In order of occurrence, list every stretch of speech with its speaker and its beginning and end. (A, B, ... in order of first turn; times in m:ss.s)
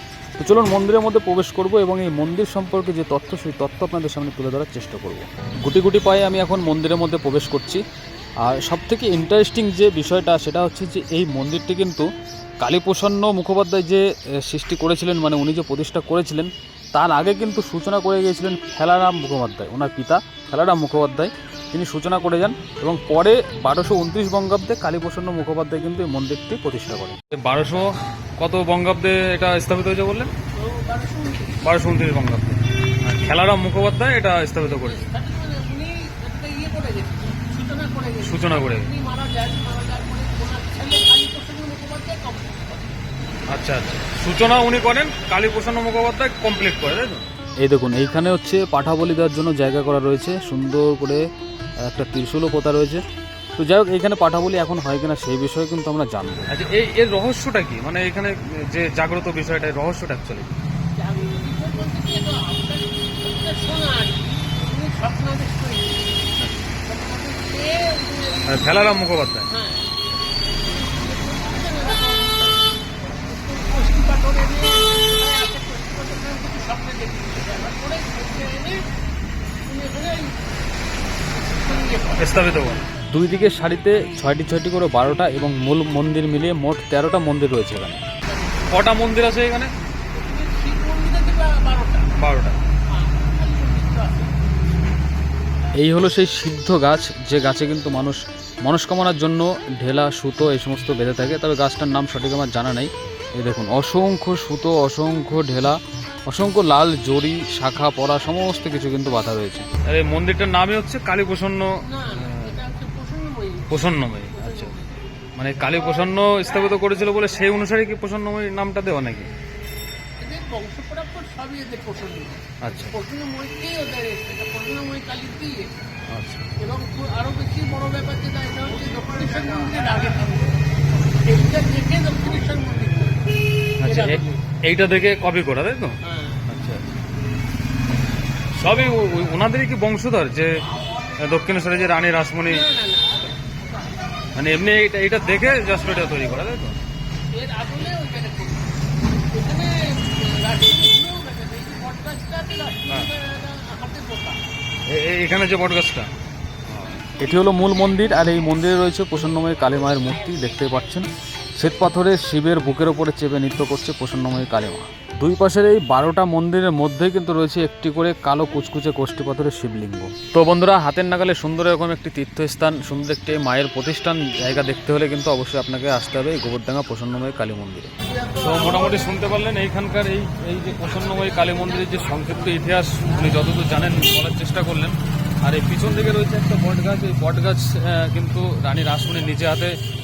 0:00.4-0:07.8 A
0:08.4-0:12.1 A
0:12.6-0:30.3 A
0:30.6-0:31.6 B
0:31.6-0:35.0 A
0:34.7-0:43.0 B
0:38.2-0:38.9 A
0:43.5-0:51.2 A
0:51.8-0:53.0 A
0:53.6-1:00.6 A
1:01.0-1:06.3 B
1:06.8-1:18.8 B
1:08.5-1:09.5 A
1:19.6-1:22.6 B
1:22.2-1:28.0 A
1:28.7-1:29.7 A
1:30.1-1:32.1 B
1:32.2-1:32.6 A
1:32.9-1:34.4 B
1:35.8-1:52.5 A
1:51.8-1:54.9 B
1:53.7-1:54.7 A
1:55.4-1:59.3 A
2:00.2-2:05.7 B
2:02.6-2:03.0 A
2:06.1-2:06.5 A
2:06.6-2:14.4 B
2:13.8-2:16.9 A
2:16.0-2:16.4 B
2:18.5-2:20.5 A
2:21.2-2:22.7 A
2:22.5-2:23.9 B
2:24.4-2:26.8 A
2:27.3-2:28.7 B
2:29.3-2:34.4 B
2:34.9-2:36.1 A
2:36.7-2:41.1 A
2:41.6-3:09.8 A
2:58.0-2:59.2 B